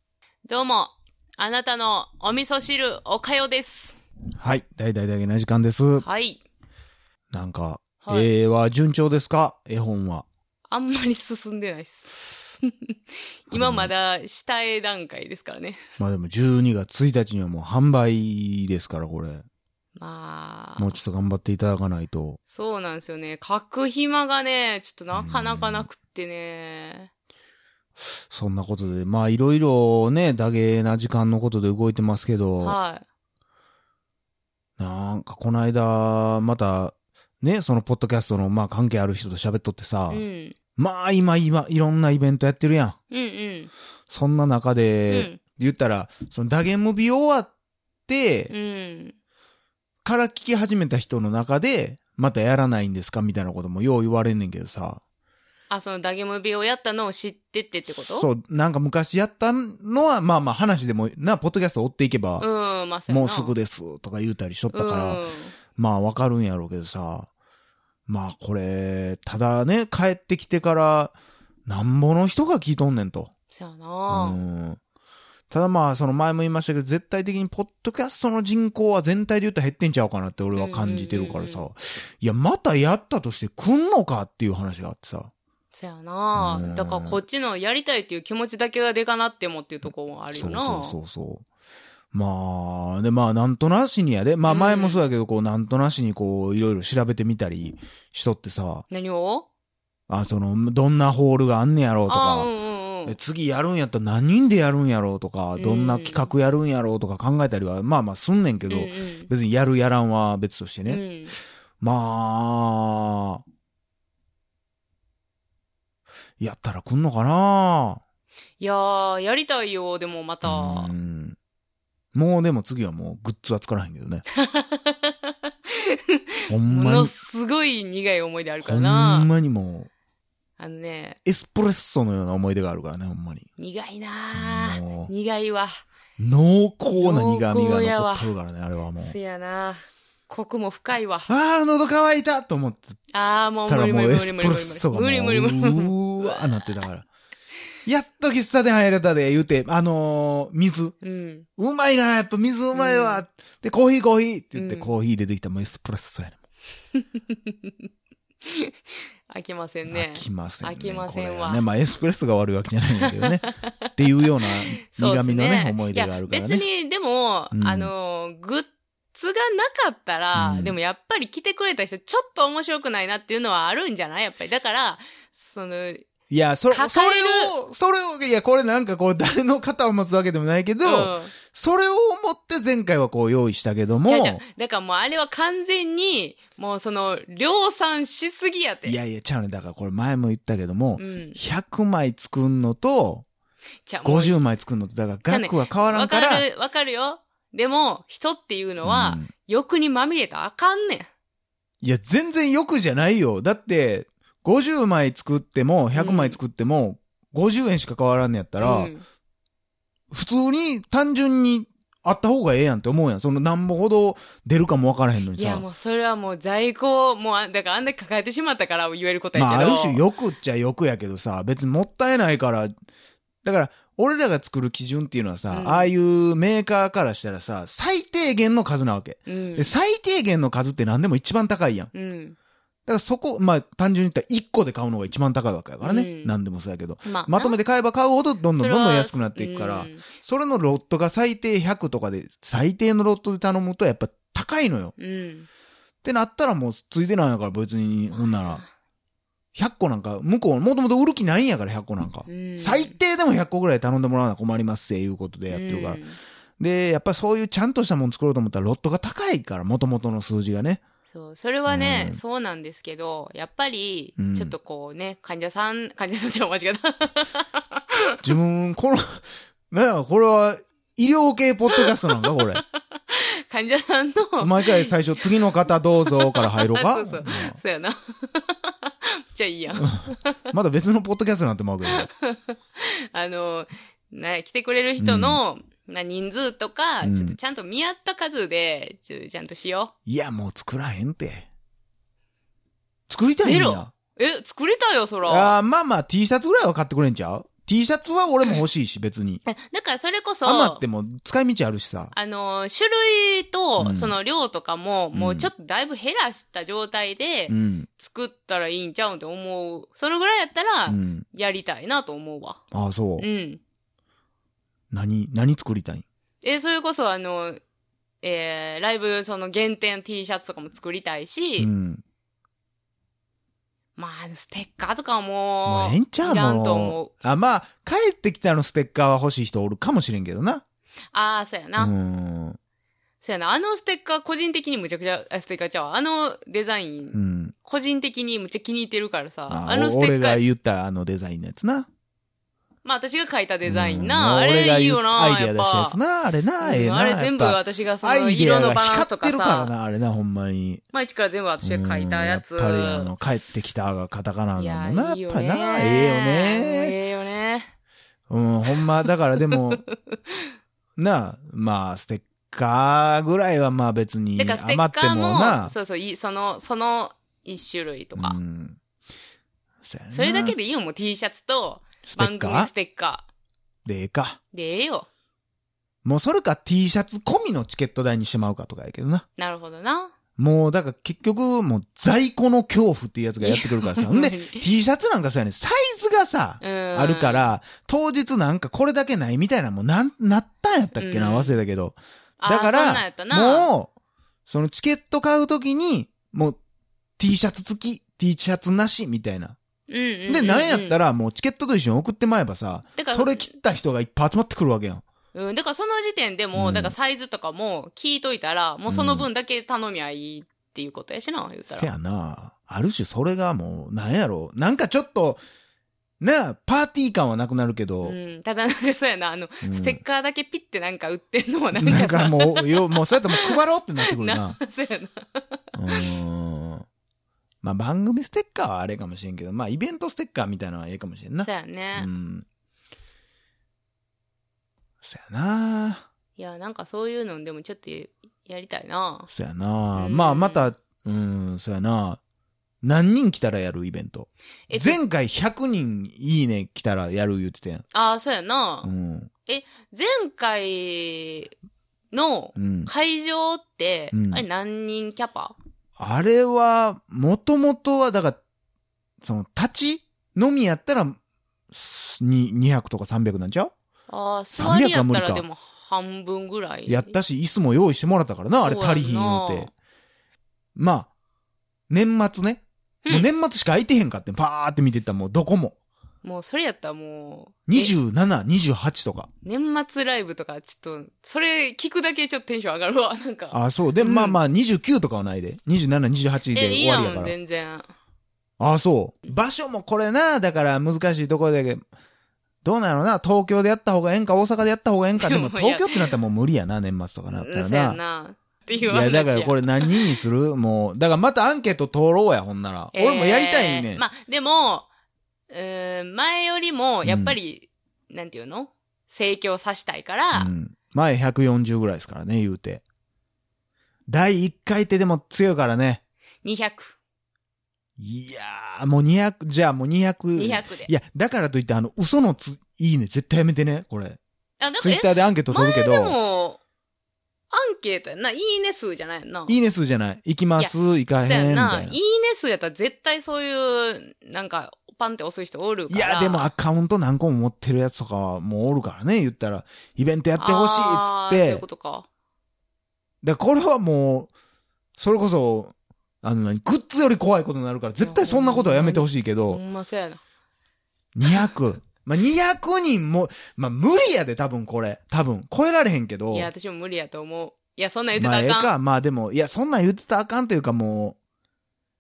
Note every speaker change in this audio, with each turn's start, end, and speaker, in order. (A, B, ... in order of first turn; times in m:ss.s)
0:00.4-0:04.0 A
0:04.4-0:06.0 B
0:06.0-0:06.4 A
0:07.3-0:10.3 B
0:08.0-0:08.3 A
0:10.7-0:12.9 A
0:13.5-0:15.8 A
0:13.5-0:13.9 B
0:16.0-0:19.4 B
0:20.0-0:20.9 A
0:20.8-0:22.4 B
0:22.5-0:27.1 A
0:25.1-0:25.9 B
0:28.0-0:32.8 B
0:32.6-0:33.0 A
0:34.8-0:40.2 B
0:40.1-0:40.6 A
0:40.8-0:43.0 B
0:43.1-0:43.7 A
0:44.1-0:47.5 B
0:45.1-0:45.4 A
0:48.1-0:48.5 B
0:48.5-0:49.1 A
0:50.0-0:55.0 B
0:55.7-0:58.2 A
0:57.9-1:02.5 B
1:02.4-1:03.6 A
1:03.1-1:05.2 B
1:04.7-1:05.6 A
1:05.8-1:07.3 B
1:08.1-1:11.1 B
1:11.7-1:13.3 B
1:13.5-1:14.4 A
1:14.1-1:14.8 B
1:15.5-1:25.3 B
1:20.6-1:21.7 A
1:25.7-1:31.0 A
1:26.3-1:27.2 B
1:29.9-1:31.4 B
1:32.1-1:38.8 B
1:34.4-1:35.0 A
1:38.9-1:39.5 A
1:40.1-1:42.5 B
1:42.1-1:43.2 A
1:43.0-1:51.0 B
1:45.6-1:46.3 A
1:48.7-1:49.3 A
1:50.9-1:51.4 A
1:51.8-1:53.4 B
1:56.4-1:58.0 B
1:58.6-2:00.9 A
2:00.4-2:01.4 B
2:02.1-2:04.3 B
2:04.4-2:09.3 A
2:06.5-2:07.1 B
2:08.6-2:09.9 B
2:10.6-2:11.2 A
2:11.2-2:13.5 B
2:13.6-2:15.8 A
2:14.3-2:15.1 B
2:16.2-2:19.2 B
2:16.9-2:18.3 A
2:19.0-2:21.3 A
2:21.3-2:23.0 B
2:23.1-2:26.7 A
2:23.7-2:27.1 B
2:27.9-2:31.0 B
2:31.0-2:31.5 A
2:31.6-2:36.4 B
2:32.7-2:33.2 A
2:34.6-2:34.9 A
2:37.0-2:37.7 A
2:38.4-2:38.7 A
2:39.3-2:41.6 A
2:39.9-2:46.7 B
2:43.0-2:43.7 A
2:44.5-2:56.1 A
2:47.5-2:47.9 B
2:50.3-2:50.8 B
2:56.3-3:04.4 B
2:56.7-2:57.5 A
3:00.8-3:01.3 A
3:04.0-3:09.0 A
3:08.8-3:13.3 B
3:11.0-3:11.4 A
3:13.9-3:14.4 A
3:14.0-3:16.4 B
3:15.3-3:21.1 A
3:18.8-3:19.3 B
3:21.8-3:28.9 B
3:26.0-3:26.4 A
3:28.6-3:29.0 A
3:30.1-3:35.7 B
3:35.3-3:40.0 A
3:39.3-3:42.7 B
3:43.4-3:51.9 B
3:45.5-3:45.9 A
3:49.3-3:49.7 A
3:51.9-3:52.4 A
3:52.9-4:04.9 B
3:55.8-3:56.4 A
3:57.0-3:57.6 A
3:58.6-4:00.1 A
4:05.0-4:05.5 A
4:06.0-4:08.6 B
4:08.1-4:08.7 A
4:09.6-4:16.0 B
4:12.3-4:13.0 A
4:15.5-4:16.2 A
4:16.6-4:20.8 B
4:21.1-4:28.1 A
4:21.7-4:22.2 B
4:24.2-4:24.5 B
4:28.2-4:32.6 B
4:31.7-4:35.2 A
4:34.4-4:37.6 B
4:36.1-4:40.4 A
4:39.8-4:42.1 B
4:41.9-4:49.9 A
4:45.0-4:45.4 B
4:47.0-4:47.4 B
4:50.1-4:51.5 B
4:53.1-4:53.9 B
4:53.4-4:55.6 A
4:55.2-4:59.4 B
4:59.4-5:00.8 A
5:00.4-5:02.1 B
5:02.1-5:12.6 A
5:03.8-5:04.1 B
5:05.1-5:05.5 B
5:07.5-5:07.9 B
5:10.9-5:11.2 B
5:12.7-5:13.3 B
5:13.2-5:13.6 A
5:14.9-5:16.0 B
5:16.4-5:17.6 A
5:18.2-5:21.7 A
5:21.6-5:22.0 B
5:24.0-5:27.1 A
5:25.6-5:30.6 B
5:31.1-5:31.9 A
5:31.8-5:32.6 B
5:33.2-5:40.4 A
5:37.1-5:37.5 B
5:39.5-5:41.9 B
5:42.8-5:46.0 A
5:43.6-5:50.8 B
5:46.6-5:49.7 A
5:50.9-5:53.1 A
5:51.6-5:56.9 B
5:54.6-5:57.7 A
5:58.3-5:59.8 B
5:59.5-6:00.3 A
6:01.0-6:05.8 B
6:04.4-6:08.4 A
6:08.1-6:08.8 B
6:09.8-6:10.6 B
6:10.1-6:13.2 A
6:12.1-6:12.7 B
6:13.8-6:14.4 B
6:14.5-6:15.1 A
6:16.0-6:19.2 B
6:19.4-6:20.1 A
6:20.4-6:33.9 B
6:23.4-6:24.7 A
6:26.6-6:27.5 A
6:31.0-6:31.6 A
6:32.4-6:33.7 A
6:34.5-6:36.6 B
6:37.2-6:39.6 B
6:39.9-6:41.0 A
6:40.3-6:45.0 B
6:43.0-6:43.5 A
6:45.3-6:51.9 A
6:46.5-6:46.9 B
6:48.9-6:49.3 B
6:51.7-6:55.4 B
6:56.2-6:58.2 B
6:58.0-7:03.6 A
6:59.6-7:00.0 B
7:01.8-7:04.6 B
7:04.1-7:06.1 A
7:05.8-7:06.8 B
7:07.6-7:12.4 B
7:11.4-7:12.1 A
7:15.0-7:16.1 B
7:16.4-7:19.3 A
7:19.3-7:22.2 B
7:19.9-7:20.7 A
7:22.8-7:27.8 B
7:24.7-7:25.0 A
7:27.9-7:28.9 A
7:28.8-7:29.3 B
7:29.4-7:31.5 A
7:32.1-7:35.6 A
7:32.6-7:32.9 B
7:34.1-7:34.4 B
7:36.0-7:38.4 B
7:39.2-7:41.2 B
7:41.7-7:43.7 B
7:44.1-7:47.1 A
7:44.5-7:45.4 B
7:46.9-7:49.7 B
7:48.6-7:49.7 A
7:50.8-7:51.1 B
7:51.9-7:55.8 B
7:56.2-7:58.0 A
7:57.7-7:59.3 B
7:59.4-8:04.4 A
8:03.5-8:07.3 B
8:06.5-8:07.9 A
8:08.6-8:11.8 B
8:12.6-8:18.0 B
8:15.2-8:16.1 A
8:17.3-8:20.2 A
8:18.8-8:24.0 B
8:22.9-8:24.9 A
8:25.5-8:30.5 A
8:27.0-8:27.4 B
8:30.3-8:32.8 B
8:34.1-8:36.0 B
8:36.4-8:37.0 A
8:38.0-8:44.2 B
8:40.4-8:40.9 A
8:44.6-8:46.6 A
8:44.8-8:46.2 B
8:47.5-8:49.6 A
8:49.5-8:52.0 B
8:50.6-8:56.5 A
8:55.9-9:01.6 B
9:00.4-9:02.1 A
9:03.2-9:04.3 B
9:05.0-9:09.6 B
9:08.0-9:10.2 A
9:11.2-9:16.5 B
9:16.3-9:18.8 A
9:18.1-9:21.2 B